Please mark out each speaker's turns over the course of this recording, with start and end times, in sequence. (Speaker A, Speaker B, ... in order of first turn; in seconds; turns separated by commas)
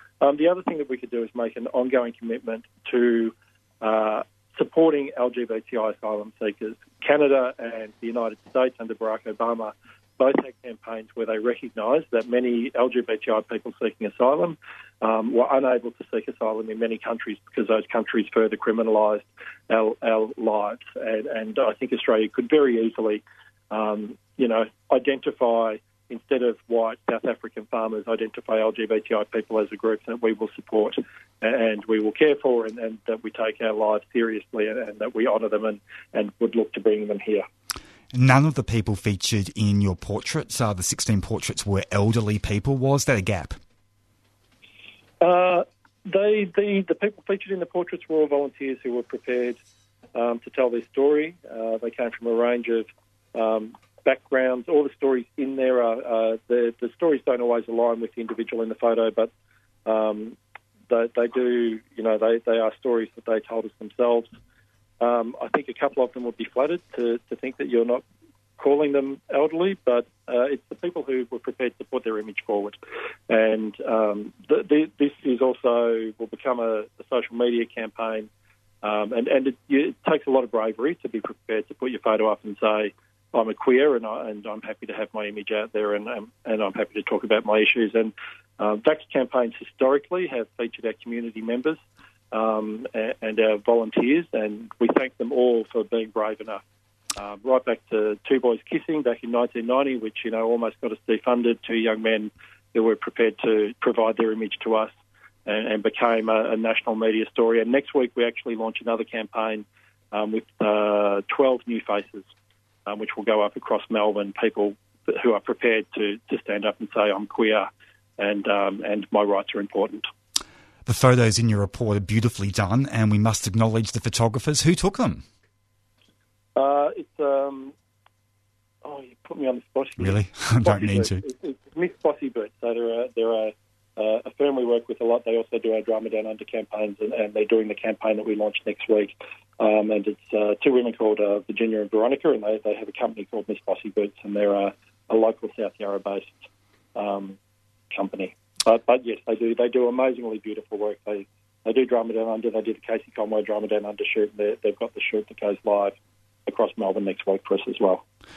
Speaker A: 0.2-37.4, Speaker B: 38.1-43.6, Speaker A: 45.2-49.6, Speaker A: 50.1-59.3, Speaker A: 59.9-60.4, Speaker A: 60.9-64.3, Speaker A: 65.0-68.0, Speaker A: 68.6-72.8, Speaker A: 73.3-78.3, Speaker A: 78.8-91.8, Speaker A: 92.3-96.6, Speaker A: 97.2-104.9, Speaker A: 105.5-112.3, Speaker A: 112.9-120.1, Speaker B: 120.8-125.2, Speaker A: 126.6-127.8, Speaker A: 128.8-147.4, Speaker B: 130.0-131.2, Speaker A: 147.9-158.0